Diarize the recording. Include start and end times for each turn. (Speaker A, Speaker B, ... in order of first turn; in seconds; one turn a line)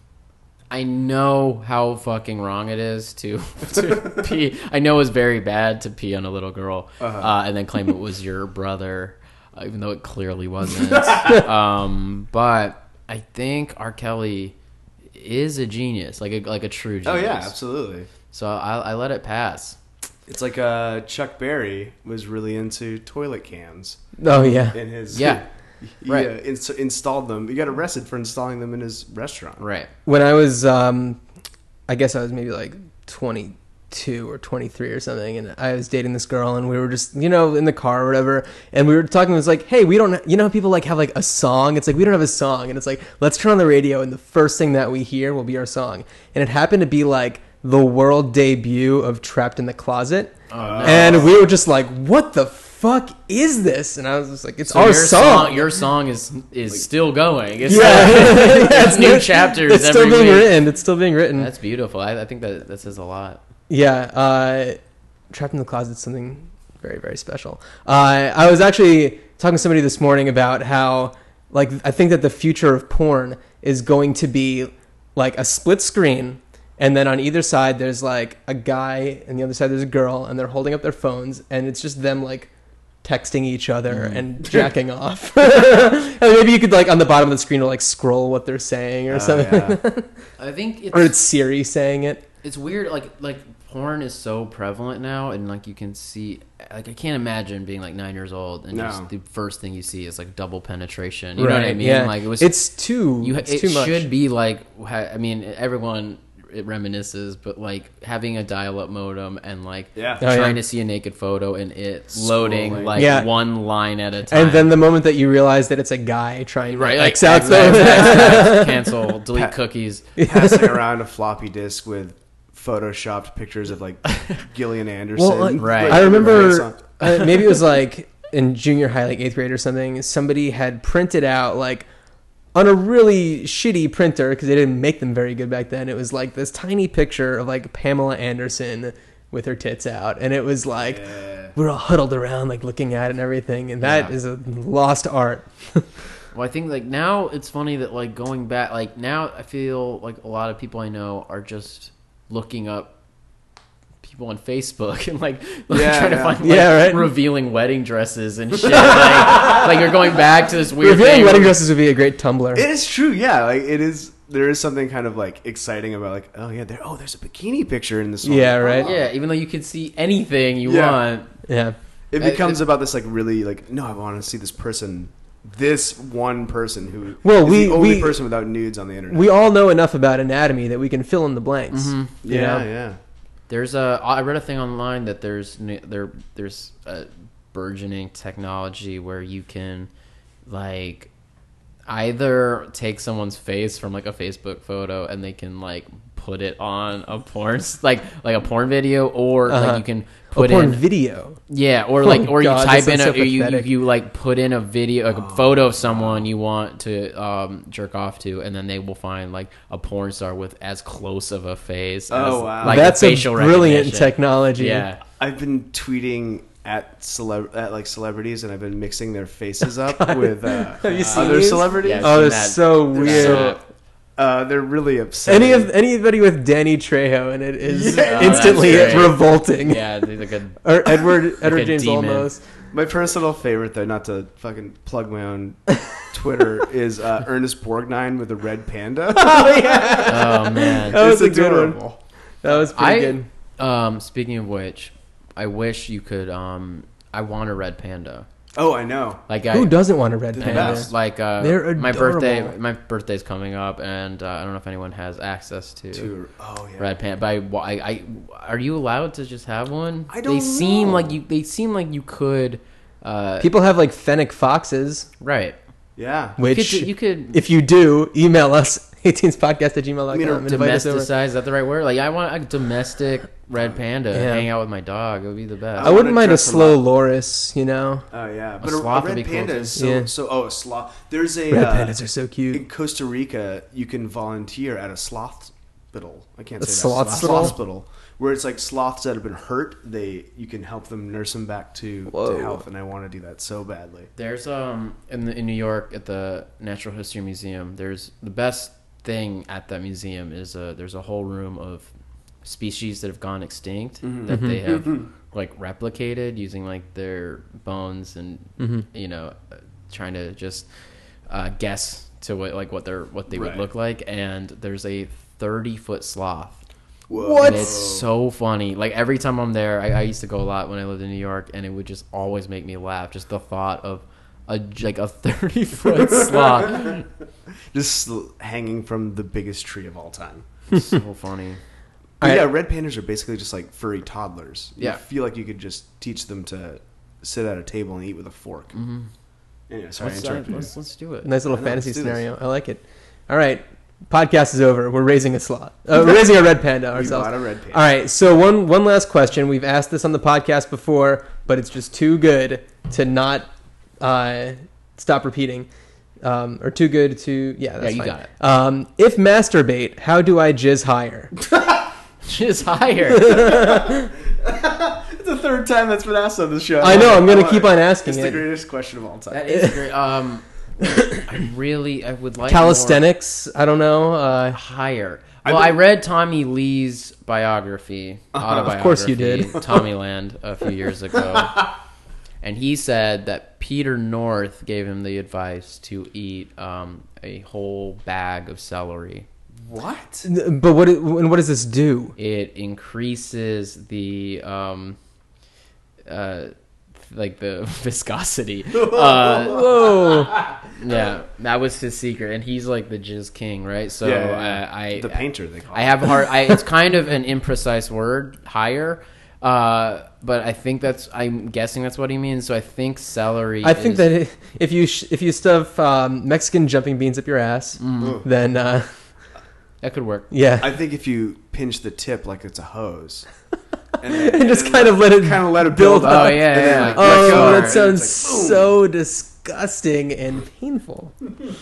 Speaker A: 0.7-14.5
Speaker B: 7.0-7.3
Speaker B: 10.9-11.4
Speaker A: 15.1-17.5
Speaker B: 17.0-18.1
Speaker A: 18.3-19.8
Speaker B: 20.3-24.1
Speaker C: 24.2-24.8
Speaker A: 24.3-25.4
Speaker B: 24.7-29.6
Speaker A: 26.1-26.3
Speaker A: 29.6-29.9
Speaker C: 30.1-31.2
Speaker C: 31.9-55.7
Speaker A: 50.5-51.4
Speaker B: 50.5-51.4
Speaker A: 54.6-60.5
Speaker C: 57.6-61.5
Speaker A: 61.3-63.4
Speaker C: 63.7-64.8
Speaker C: 65.3-82.5
Speaker C: 83.0-90.1
Speaker A: 83.9-84.2
Speaker B: 89.1-89.8
Speaker A: 90.4-91.2
Speaker C: 90.9-92.2
Speaker A: 92.4-102.5
Speaker B: 98.7-99.1
Speaker C: 101.4-104.1
Speaker A: 103.2-114.7
Speaker B: 110.0-110.2
Speaker C: 110.2-110.6
Speaker B: 112.2-113.2
Speaker C: 112.9-113.3
Speaker C: 114.3-118.9
Speaker A: 116.7-120.0
Speaker B: 117.8-118.6
Speaker B: 120.2-127.5
Speaker C: 120.2-120.8
Speaker C: 125.2-131.9
Speaker A: 125.6-126.6
Speaker C: 132.5-145.9
Speaker B: 140.8-141.5
Speaker A: 143.8-144.1
Speaker A: 146.3-152.9
Speaker A: 154.0-161.6
Speaker B: 155.7-156.4
Speaker C: 156.4-157.1
Speaker B: 158.8-159.6
Speaker C: 160.8-162.7
Speaker B: 162.5-169.1
Speaker C: 168.2-168.9
Speaker A: 168.8-171.3
Speaker B: 170.6-171.0
Speaker C: 171.5-171.8
Speaker B: 172.1-179.3
Speaker A: 172.2-172.6
Speaker C: 177.2-178.2
Speaker C: 179.1-182.6
Speaker A: 181.7-182.2
Speaker B: 182.2-183.0
Speaker A: 183.5-189.9
Speaker A: 190.4-191.1
Speaker A: 191.9-200.8
Speaker C: 199.5-201.4
Speaker A: 201.5-215.0
Speaker C: 202.0-203.7
Speaker B: 205.1-206.2
Speaker B: 212.1-212.9
Speaker C: 212.6-214.8
Speaker B: 215.2-222.3
Speaker C: 219.8-223.6
Speaker A: 220.8-223.6
Speaker B: 222.9-223.6
Speaker B: 224.2-225.7
Speaker C: 225.2-229.9
Speaker B: 227.6-229.2
Speaker A: 227.9-230.6
Speaker C: 230.6-232.4
Speaker A: 231.3-232.3
Speaker B: 232.7-242.0
Speaker C: 239.1-241.8
Speaker A: 240.0-241.0
Speaker C: 242.4-243.3
Speaker A: 242.6-248.3
Speaker B: 248.5-249.2
Speaker A: 249.3-249.8
Speaker C: 249.5-252.5
Speaker A: 250.3-256.1
Speaker B: 250.4-250.9
Speaker B: 255.9-256.9
Speaker A: 256.8-263.5
Speaker B: 260.1-261.1
Speaker C: 263.4-265.1
Speaker A: 265.2-265.6
Speaker B: 265.9-266.4
Speaker C: 266.4-271.1
Speaker A: 266.4-267.4
Speaker B: 270.1-270.5
Speaker A: 270.4-276.0
Speaker C: 274.1-274.5
Speaker B: 275.8-276.8
Speaker C: 275.8-278.0
Speaker B: 278.1-282.0
Speaker A: 278.6-279.8
Speaker C: 279.8-280.1
Speaker C: 281.5-282.6
Speaker B: 282.5-294.1
Speaker C: 286.6-287.6
Speaker A: 287.0-287.5
Speaker C: 292.1-292.6
Speaker A: 294.1-301.9
Speaker A: 302.4-309.4
Speaker B: 304.0-305.1
Speaker C: 304.3-304.6
Speaker C: 308.6-308.8
Speaker A: 309.9-310.7
Speaker A: 311.3-316.6
Speaker B: 313.3-313.6
Speaker B: 317.1-318.1
Speaker C: 317.1-317.8
Speaker A: 317.4-327.1
Speaker B: 326.3-326.9
Speaker B: 327.7-330.4
Speaker A: 330.7-331.6
Speaker C: 332.2-332.5
Speaker B: 332.2-338.7
Speaker A: 338.7-339.1
Speaker B: 339.7-340.7
Speaker A: 340.0-341.3
Speaker C: 341.2-353.5
Speaker B: 341.5-342.2
Speaker B: 346.9-347.8
Speaker C: 354.0-355.7
Speaker C: 356.2-361.3
Speaker A: 357.8-358.3
Speaker B: 361.5-361.8
Speaker A: 362.2-363.7
Speaker C: 363.1-364.1
Speaker B: 363.5-369.6
Speaker C: 366.8-368.4
Speaker A: 369.3-370.4
Speaker C: 370.8-371.2
Speaker A: 371.1-373.0
Speaker C: 372.5-374.6
Speaker A: 374.5-381.7
Speaker B: 375.4-375.8
Speaker B: 378.3-378.7
Speaker C: 378.5-379.8
Speaker A: 382.4-389.3
Speaker B: 389.6-390.3
Speaker C: 390.2-392.1
Speaker A: 392.2-395.0
Speaker A: 396.1-399.9
Speaker B: 398.7-400.6
Speaker C: 399.4-400.4
Speaker A: 400.7-414.1
Speaker B: 404.0-406.3
Speaker C: 413.6-418.9
Speaker A: 417.8-418.2
Speaker A: 419.8-420.3
Speaker C: 420.3-420.7
Speaker B: 420.6-423.3
Speaker B: 424.0-428.7
Speaker C: 424.0-431.1
Speaker A: 426.0-427.8